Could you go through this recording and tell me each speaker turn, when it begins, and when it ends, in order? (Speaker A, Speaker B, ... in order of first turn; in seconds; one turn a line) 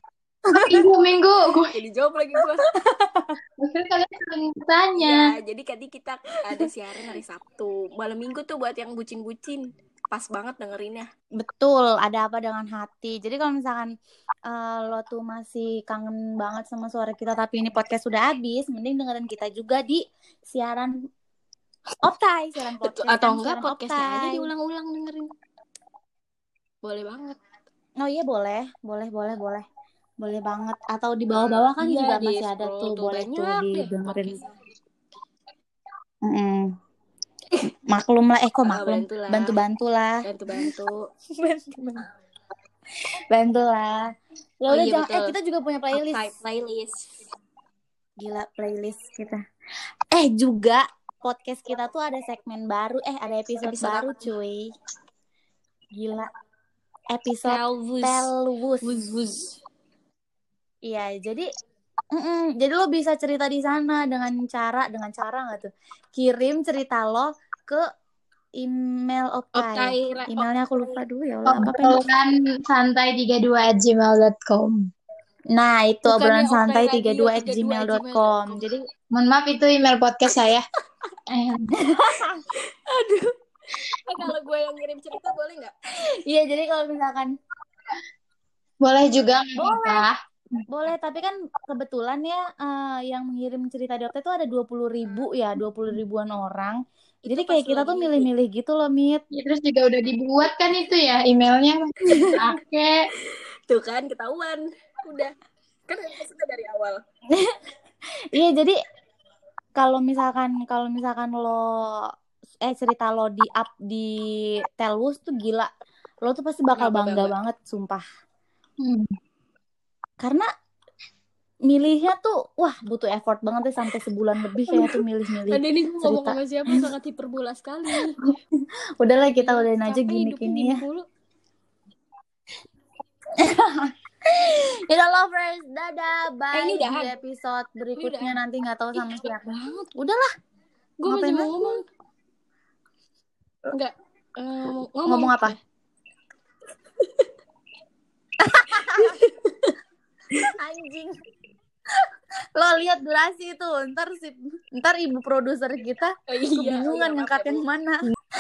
Speaker A: 0.5-0.8
Speaker B: 0.5-1.8
Speaker C: 1.7-2.7
Speaker A: 2.7-3.4
Speaker B: 3.6-5.3
Speaker C: 5.0-11.1
Speaker A: 11.4-13.9
Speaker A: 14.5-21.0
Speaker A: 22.0-24.5
Speaker C: 22.8-25.3
Speaker C: 26.8-27.4
Speaker A: 28.0-29.6
Speaker A: 30.2-34.4
Speaker C: 31.3-34.5
Speaker A: 36.2-36.7
Speaker A: 37.9-40.7
Speaker C: 38.6-39.6
Speaker C: 40.2-41.0
Speaker A: 41.3-42.1
Speaker A: 43.3-44.1
Speaker A: 44.6-46.3
Speaker C: 44.7-45.4
Speaker C: 45.9-47.2
Speaker A: 48.2-49.4
Speaker A: 50.1-54.7
Speaker C: 53.6-54.3
Speaker A: 55.9-56.3
Speaker A: 57.1-58.9
Speaker C: 57.5-58.3
Speaker C: 58.8-59.5
Speaker A: 60.9-61.5
Speaker A: 62.1-67.8
Speaker A: 68.6-72.0
Speaker C: 69.5-71.0
Speaker B: 71.5-74.9
Speaker A: 75.5-78.8
Speaker C: 76.1-78.6
Speaker B: 79.1-80.6
Speaker B: 81.3-82.0
Speaker A: 81.8-82.4
Speaker C: 82.9-83.3
Speaker C: 84.1-85.7
Speaker A: 86.3-87.3
Speaker B: 88.8-90.6
Speaker A: 89.6-90.1
Speaker A: 90.7-99.2
Speaker C: 97.3-98.3
Speaker B: 99.3-103.0
Speaker A: 102.1-102.4
Speaker C: 103.7-105.3
Speaker C: 105.9-107.0
Speaker A: 107.3-107.6
Speaker A: 108.2-108.8
Speaker A: 109.8-112.1
Speaker A: 112.6-115.7
Speaker A: 116.2-118.0
Speaker C: 116.8-117.4
Speaker B: 118.8-119.1
Speaker A: 120.2-120.5
Speaker A: 121.7-126.9
Speaker C: 124.7-128.2
Speaker A: 128.2-130.8
Speaker C: 129.4-131.1
Speaker A: 133.4-140.3
Speaker C: 136.5-137.1
Speaker C: 138.0-138.3
Speaker C: 139.0-139.2
Speaker C: 141.0-141.8
Speaker A: 141.1-141.8
Speaker C: 143.7-145.6
Speaker A: 145.1-145.6
Speaker A: 148.4-149.2
Speaker C: 148.8-149.8
Speaker A: 150.6-151.2
Speaker A: 152.6-158.1
Speaker C: 156.3-157.6